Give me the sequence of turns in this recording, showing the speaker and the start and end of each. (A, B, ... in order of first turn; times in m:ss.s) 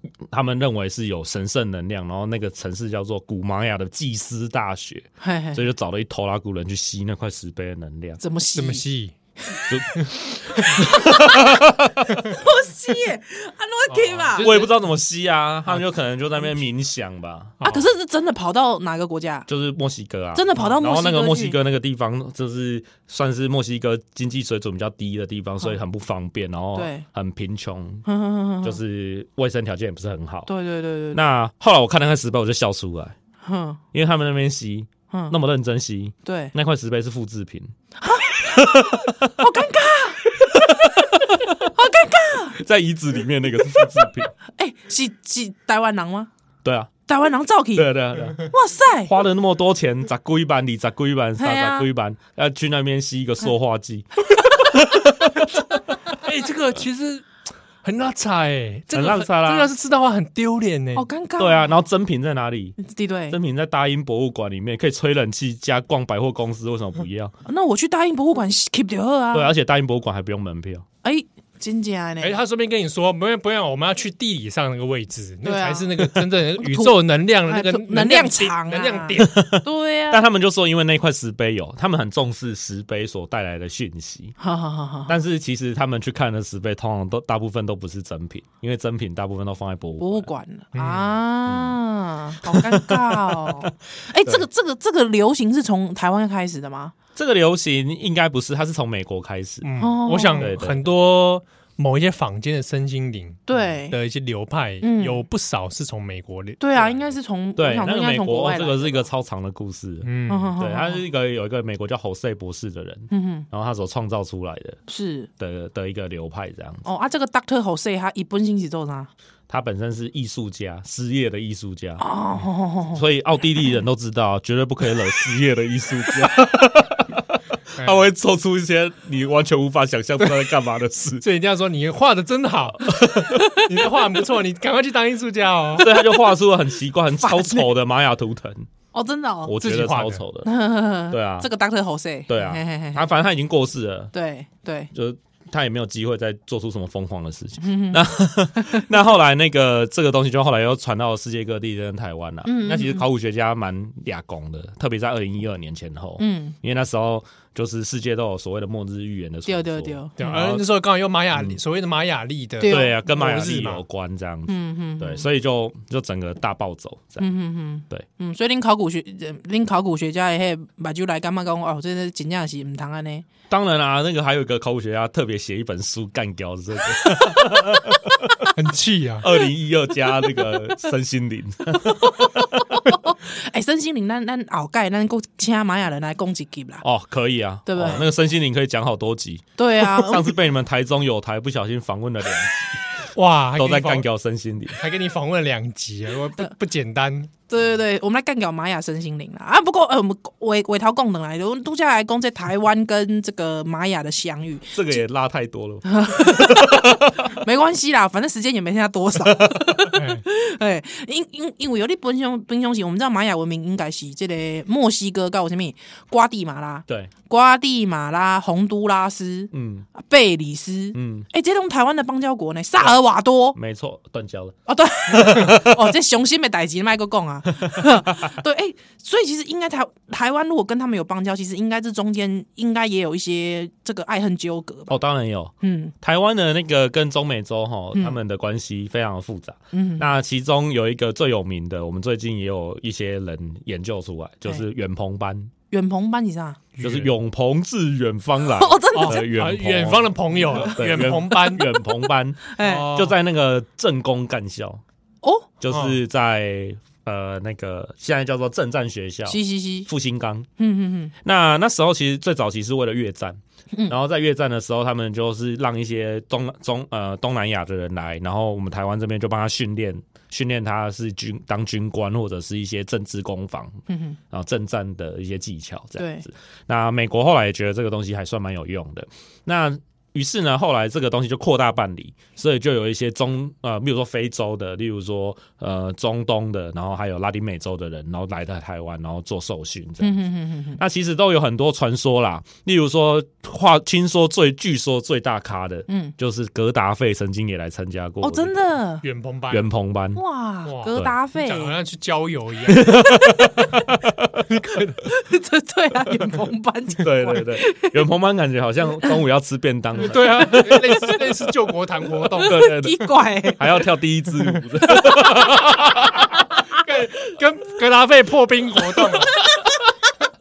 0:00.3-0:08.2 A
0:05.2-0:05.6 B
0:08.2-0:08.8 B
0:08.6-0:09.1 C
0:09.7-0:12.3 A
0:10.0-0:10.8 C
0:10.5-0:14.6 B
0:13.9-0:14.7 C
0:14.4-0:17.6 A
0:17.6-0:17.9 C
0:17.6-0:19.5 B
0:19.5-0:28.0 A
0:20.3-0:21.6 B
0:26.8-0:27.0 B
0:28.0-0:28.8 B
0:28.6-0:30.5 A
0:30.5-0:31.2 B
0:31.1-0:33.2 A
0:33.4-0:33.8 B
0:33.9-0:37.7 A
0:35.1-0:35.4 B
0:36.2-0:36.5 B
0:38.0-0:42.6 B
0:38.4-0:39.3 A
0:40.5-0:41.7 A
0:42.6-0:44.3 A
0:44.6-0:46.3 B
0:46.6-0:46.9 A
0:47.1-0:49.1 B
0:47.8-0:48.5 A
0:49.0-0:55.6 A
0:51.4-0:51.9 B
0:56.1-0:57.3 C
0:57.8-1:01.1 C
0:58.9-0:59.7 A
1:01.0-1:01.7 B
1:01.4-1:02.8 A
1:02.8-1:03.4 B
1:03.3-1:07.3 A
1:07.4-1:09.5 B
1:09.3-1:10.9 A
1:11.0-1:12.4 B
1:12.2-1:19.4 C
1:15.4-1:20.2 B
1:19.2-1:24.4 A
1:24.4-1:25.2 B
1:25.1-1:30.3 A
1:30.0-1:36.9 B
1:30.7-1:31.2 C
1:31.5-1:31.8 A
1:32.4-1:33.7 A
1:37.2-1:39.7 A
1:39.6-1:47.1 C
1:39.8-1:40.5 B
1:40.4-1:40.9 A
1:43.5-1:44.0 B
1:44.8-1:45.2 B
1:46.6-1:49.1 B
1:47.6-1:54.8 A
1:50.0-1:50.5 C
1:50.3-1:51.0 B
1:53.1-1:53.5 B
1:54.9-1:55.3 B
1:55.4-1:56.8 A
1:56.8-1:59.1 B
1:59.5-2:02.0 A
2:02.0-2:03.0 B
2:02.9-2:11.2 A
2:07.8-2:08.1 C
2:11.2-2:15.9 C
2:12.8-2:13.6 A
2:13.3-2:13.7 B
2:15.8-2:18.7 A
2:17.2-2:17.7 B
2:18.9-2:19.6 B
2:19.4-2:21.5 A
2:19.6-2:20.2 C
2:20.4-2:23.1 B
2:22.3-2:24.1 A
2:24.1-2:24.9 B
2:24.9-2:40.7 A
2:27.6-2:28.9 B
2:32.4-2:33.1 B
2:36.2-2:36.6 B
2:39.5-2:40.2 B
2:40.2-2:43.8 C
2:41.3-2:41.6 A
2:42.6-2:43.0 B
2:42.6-2:47.3 A
2:44.5-2:45.3 B
2:47.2-2:53.3 B
2:53.5-2:58.5 A
2:58.5-2:59.3 C
2:59.2-3:02.8 A
3:01.9-3:06.8 B
3:06.8-3:13.0 A
3:07.7-3:08.1 B
3:09.6-3:10.3 B
3:13.2-3:14.1 C
3:13.6-3:14.8 A
3:14.8-3:17.3 C
3:17.5-3:25.0 B
3:24.7-3:27.3 A
3:25.9-3:43.6 B
3:29.2-3:29.8 A
3:29.9-3:30.2 C
3:36.9-3:37.1 A
3:39.5-3:39.9 A
3:40.9-3:41.3 A
3:43.6-3:44.6 A
3:44.7-3:55.0 B
3:45.1-3:45.9 A
3:47.6-3:48.3 A
3:54.9-4:05.5 A
3:55.6-3:55.9 B
3:59.7-4:00.1 B
4:05.7-4:06.6 B
4:06.8-4:07.1 C
4:06.8-4:14.8 A
4:08.5-4:09.2 B
4:08.9-4:11.7 C
4:11.4-4:11.8 B
4:12.5-4:12.9 B
4:12.6-4:13.1 C
4:15.2-4:15.5 B
4:15.6-4:20.5 A
4:15.7-4:16.0 C
4:19.3-4:19.9 B
4:20.6-4:21.1 B
4:21.2-4:58.6 A
4:33.9-4:34.2 B
4:36.0-4:36.2 B
4:50.0-4:50.8 B
4:55.9-4:56.2 B
4:58.2-4:59.0 B
4:59.0-4:59.7 C
4:59.5-5:00.2 A
5:00.2-5:01.8 B
5:00.6-5:03.0 C
5:02.7-5:04.4 A
5:03.0-5:03.5 B
5:04.5-5:05.0 C
5:05.0-5:08.0 B
5:07.0-5:11.2 A
5:10.0-5:12.6 C
5:10.3-5:11.2 B
5:12.4-5:13.8 B
5:12.4-5:16.4 A
5:14.9-5:15.7 B
5:16.7-5:19.4 C
5:19.3-5:19.7 B